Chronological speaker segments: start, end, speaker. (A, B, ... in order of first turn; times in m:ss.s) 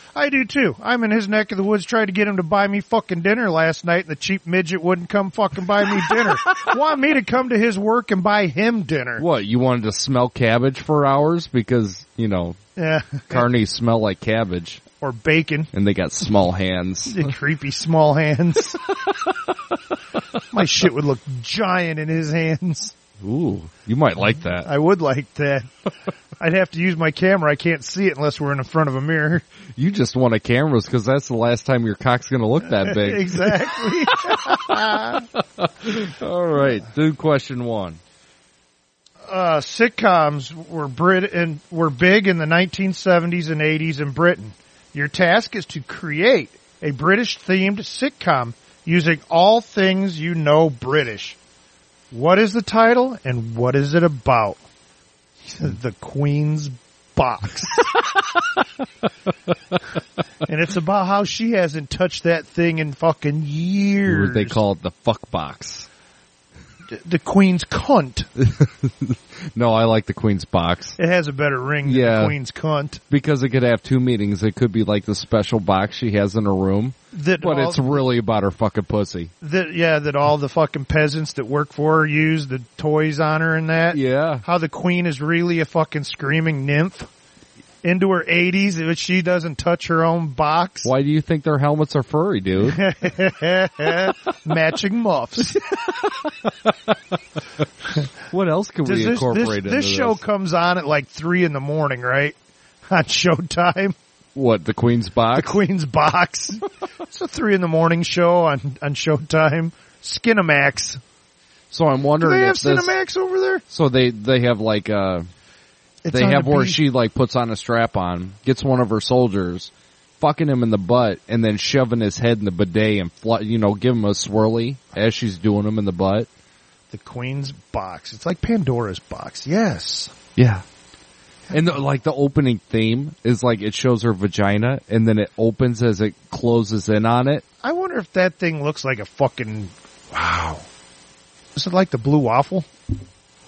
0:00.1-0:09.2 A
0:09.2-0:12.6 B
0:12.8-0:13.5 A
0:13.3-0:14.8 B
0:14.9-0:15.7 A
0:15.7-0:17.3 B
0:17.1-0:18.8 A
0:20.5-0:22.9 A
0:23.2-0:24.7 B
0:24.6-0:25.7 A
0:26.4-0:29.4 A
0:29.8-0:33.7 B
0:32.7-0:35.2 A
0:35.6-0:38.0 B
0:39.2-0:51.4 A
0:52.1-0:54.6 A
0:55.5-0:57.9 A
1:00.4-1:04.6 A
1:04.1-1:05.9 B
1:06.9-1:08.3 A
1:08.4-1:11.0 B
1:11.0-1:13.0 A
1:11.8-1:12.4 B
1:13.1-1:19.3 B
1:17.1-1:18.1 A
1:19.4-1:27.1 A
1:23.9-1:24.4 B
1:27.8-1:30.9 A
1:30.8-1:32.8 B
1:32.6-1:35.6 A
1:35.9-1:36.9 B
1:38.3-1:40.2 B
1:38.8-1:42.4 A
1:42.9-1:44.0 A
1:44.3-1:45.6 B
1:45.3-1:51.0 A
1:51.7-1:52.9 B
1:52.2-1:53.6 A
1:53.7-1:55.3 B
1:56.0-1:56.8 A
1:56.1-2:06.3 B
2:06.9-2:10.1 A
2:10.4-2:10.6 B
2:11.5-2:11.8 A
2:11.5-2:17.4 B
2:17.6-2:20.6 A
2:21.6-2:22.7 A